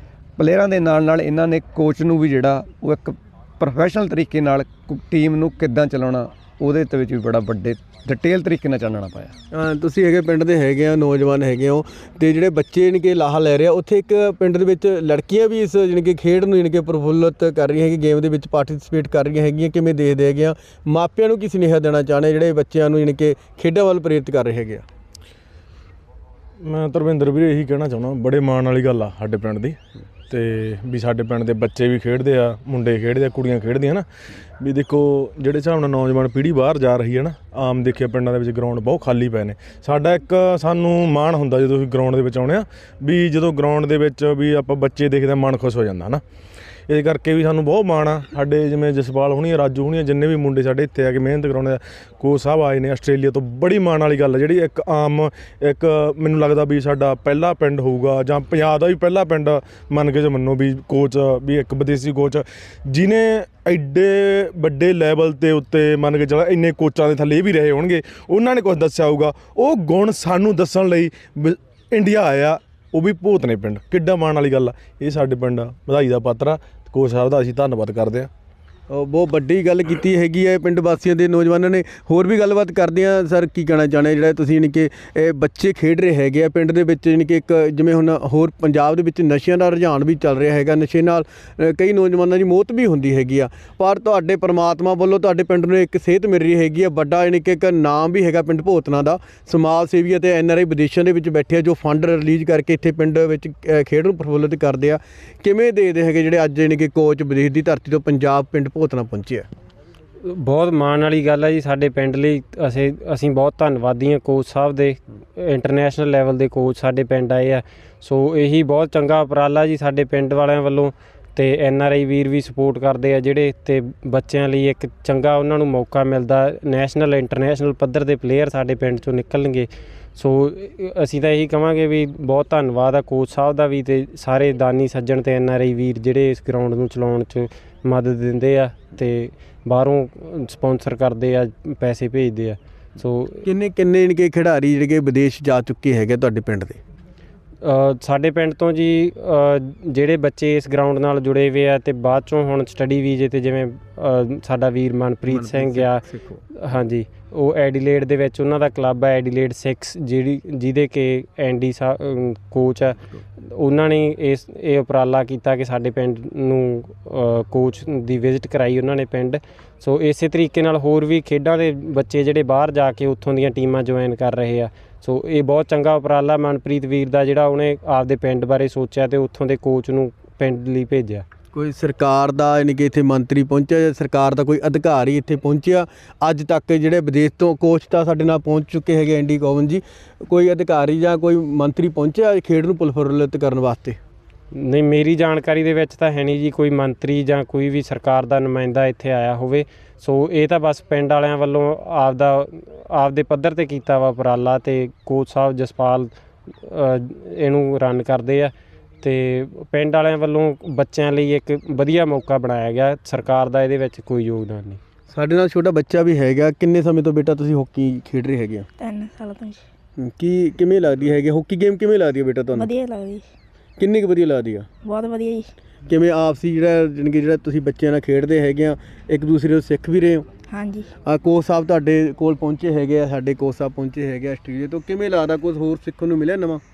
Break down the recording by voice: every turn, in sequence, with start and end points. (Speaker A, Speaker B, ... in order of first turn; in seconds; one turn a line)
Speaker A: 0.4-9.3
Speaker B: 9.5-24.9
Speaker C: 26.6-29.8
Speaker C: 30.3-34.1
Speaker C: 34.6-46.2
Speaker C: 46.9-78.3
Speaker B: 78.9-109.5
Speaker D: 110.2-143.4
Speaker B: 143.4-146.8
Speaker D: 147.6-156.0
Speaker B: 155.3-156.4
Speaker D: 156.6-181.2
Speaker B: 181.5-194.0
Speaker D: 194.5-214.8
Speaker B: 215.1-218.7
Speaker E: 218.8-219.6
Speaker B: 220.0-222.7
Speaker E: 222.6-223.3
Speaker B: 223.8-224.7
Speaker E: 224.8-225.5
Speaker B: 225.9-230.3
Speaker E: 230.5-230.9
Speaker B: 231.1-236.6